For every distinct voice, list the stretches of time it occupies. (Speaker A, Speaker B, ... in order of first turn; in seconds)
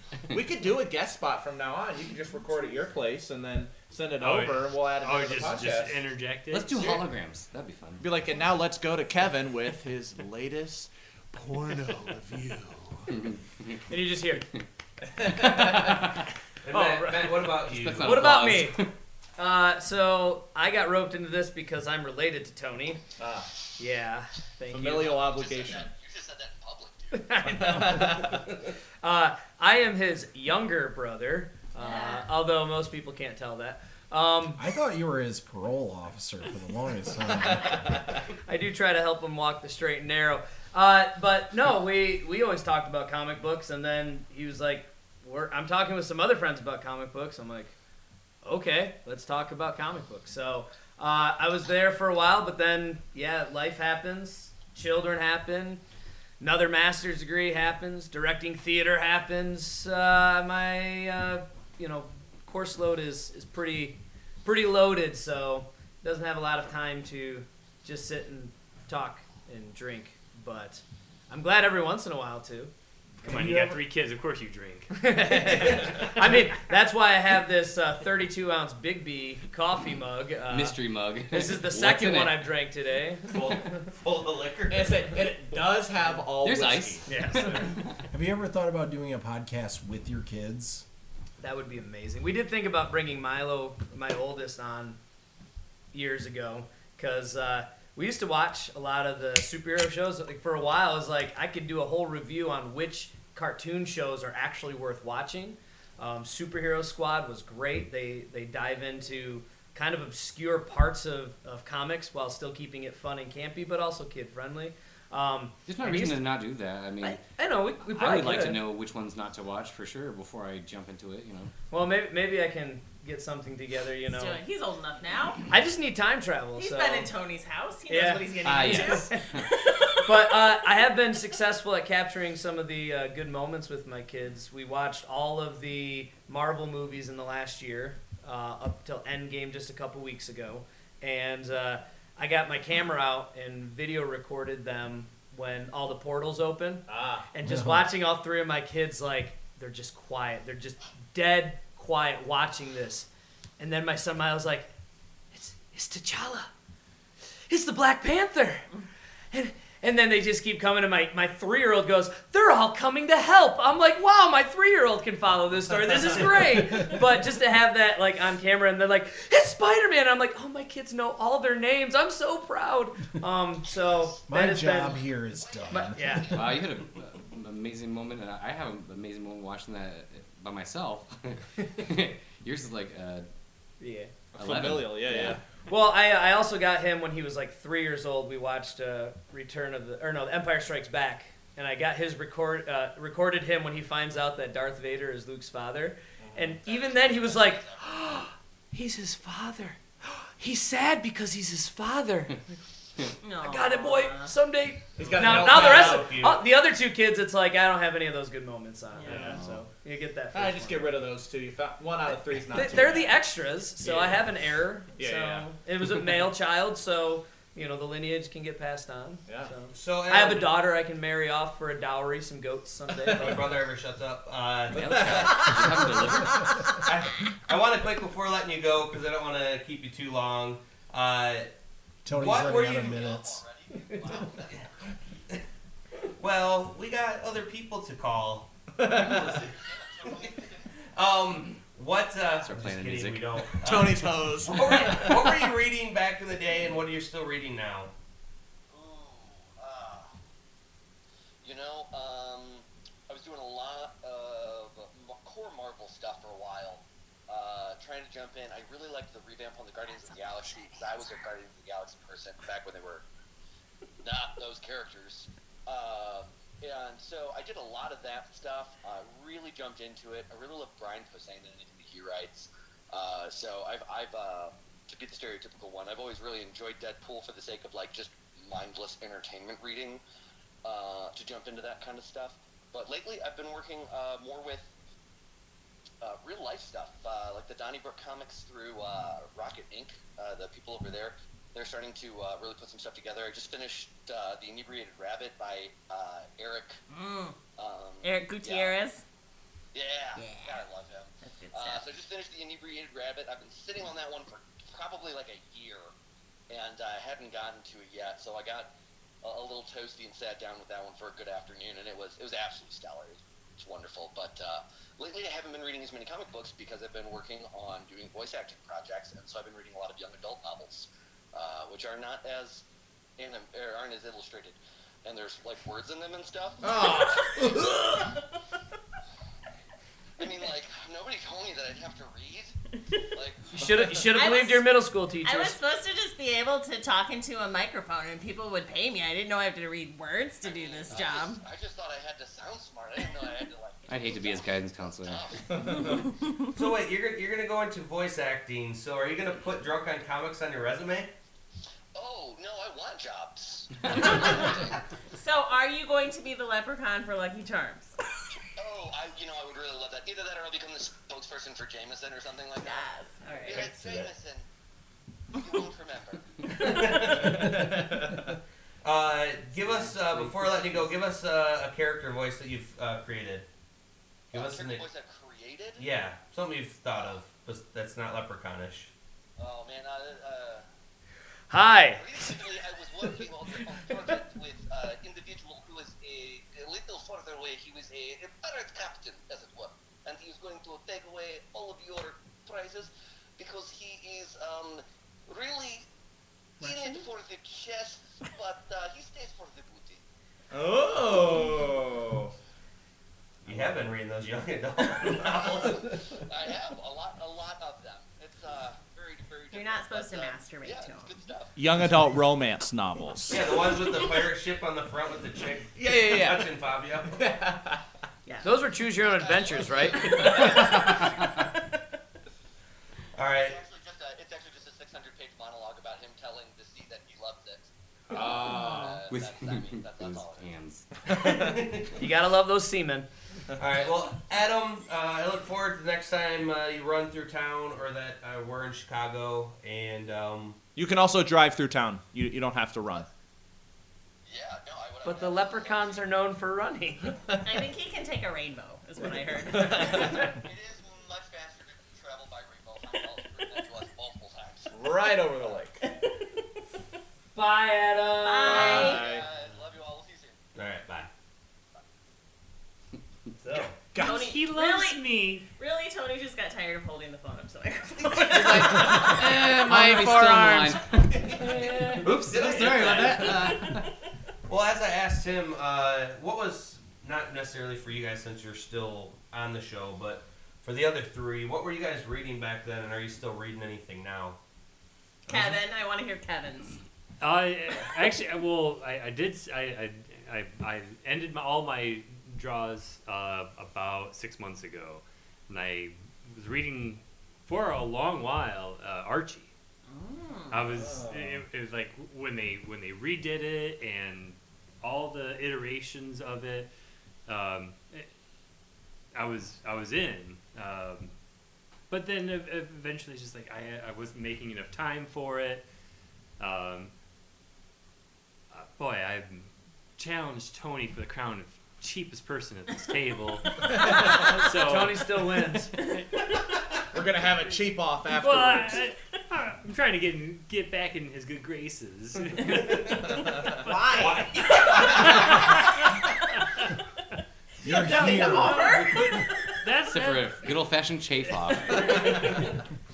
Speaker A: 0.3-6.0, 8.0-13.1, 15.0-16.1, 23.2-23.5, 24.7-25.9, 27.4-28.5, 84.7-87.1, 146.9-147.3, 184.3-185.4, 196.2-196.6, 205.0-206.2, 209.0-209.4, 210.3-213.2, 213.8-214.3, 215.0-215.5, 219.3-219.5, 238.8-239.4, 243.5-245.5, 326.6-328.1, 345.5-346.0, 367.2-368.2, 400.5-402.3, 411.6-413.5, 415.8-416.5, 417.1-417.8, 428.1-429.0, 431.1-431.6, 440.8-443.1, 449.5-450.2, 454.7-455.8, 458.4-459.3, 463.9-464.3, 468.3-470.7, 472.5-473.7, 500.7-501.4, 523.6-524.1, 526.9-528.9
Speaker B: 4.2-6.9, 73.2-75.1, 464.0-465.4, 471.3-472.8, 487.2-499.5, 500.5-506.7, 507.3-508.1, 509.1-511.1, 511.9-515.7, 516.4-516.9, 518.5-525.1, 528.1-534.0, 535.0-535.6, 538.0-538.8, 539.6-540.6, 541.2-542.6
Speaker C: 6.5-8.1, 13.1-13.8, 15.2-16.2, 17.6-18.9, 80.5-82.6, 86.4-88.0, 115.7-117.2, 117.8-121.5, 128.4-129.5, 176.3-183.3, 184.3-185.4, 209.1-209.6, 224.7-226.8, 242.4-243.4, 343.9-345.3, 369.6-370.9, 428.3-430.9, 468.2-473.9, 539.9-542.2
Speaker D: 13.9-14.5, 16.7-17.4, 18.0-18.8, 19.4-23.0, 23.8-25.2, 27.1-28.4, 29.0-34.6, 38.5-47.7, 48.4-55.8, 56.4-72.7, 73.2-73.7, 74.9-83.4, 87.1-87.8, 91.4-95.0, 95.9-116.2, 117.0-118.6, 121.7-124.4, 125.5-127.1, 127.9-129.3, 130.0-153.1, 153.6-154.7, 155.3-156.5, 157.5-158.7, 159.3-175.1, 175.7-176.4, 183.8-184.1, 185.7-202.6, 203.4-211.0, 212.5-223.4, 333.5-335.6, 381.5-382.4, 418.4-420.6, 432.0-433.1, 445.0-447.2, 457.4-459.0, 524.1-525.7
Speaker E: 16.6-18.2, 83.3-85.2, 205.0-206.5, 219.7-220.6, 223.1-225.8, 226.8-231.5, 232.1-233.1, 236.2-240.4, 240.9-247.9, 346.5-351.1, 366.5-367.9, 368.8-373.5, 374.3-374.8, 375.8-378.9, 403.4-406.2, 413.3-417.3, 423.2-423.6, 431.1-432.0, 433.6-440.6, 460.6-461.1, 463.4-463.7, 471.2-471.7, 472.2-473.3, 474.5-484.4, 532.5-532.9, 533.9-535.6
Speaker F: 25.0-27.4, 173.7-176.6, 196.6-198.1, 232.4-234.9, 239.4-240.7, 248.7-250.2, 251.4-263.1, 264.0-280.0, 280.6-284.7, 286.0-296.8, 297.6-298.8, 299.7-305.9, 306.5-308.7, 309.2-322.7, 323.2-326.9, 330.2-332.6, 333.1-333.6, 340.4-346.0, 351.9-354.8, 358.6-362.9, 363.4-364.5, 365.3-366.5, 374.3-375.9, 379.4-380.7, 381.9-395.9, 396.6-400.0, 405.6-411.5, 419.0-420.8, 423.2-430.5, 444.3-446.0, 449.7-455.6, 458.6-460.4
Speaker G: 31.8-32.2, 124.1-125.5, 126.5-130.1, 203.2-204.3, 208.9-209.4, 296.9-297.4, 298.0-299.0, 300.2-300.6, 301.2-301.9, 334.1-334.7, 335.2-341.4, 354.0-354.5, 355.1-357.9, 362.6-363.9, 409.5-411.2, 418.3-418.5, 420.0-420.7, 447.4-450.3, 455.9-456.3, 458.2-459.1, 464.0-469.4, 473.4-473.9, 485.3-486.8, 499.9-500.6, 533.6-535.2, 537.8-539.3
Speaker H: 34.6-38.0, 73.3-73.8, 88.1-90.8, 147.4-147.9, 174.3-176.5, 232.1-233.4, 537.6-539.0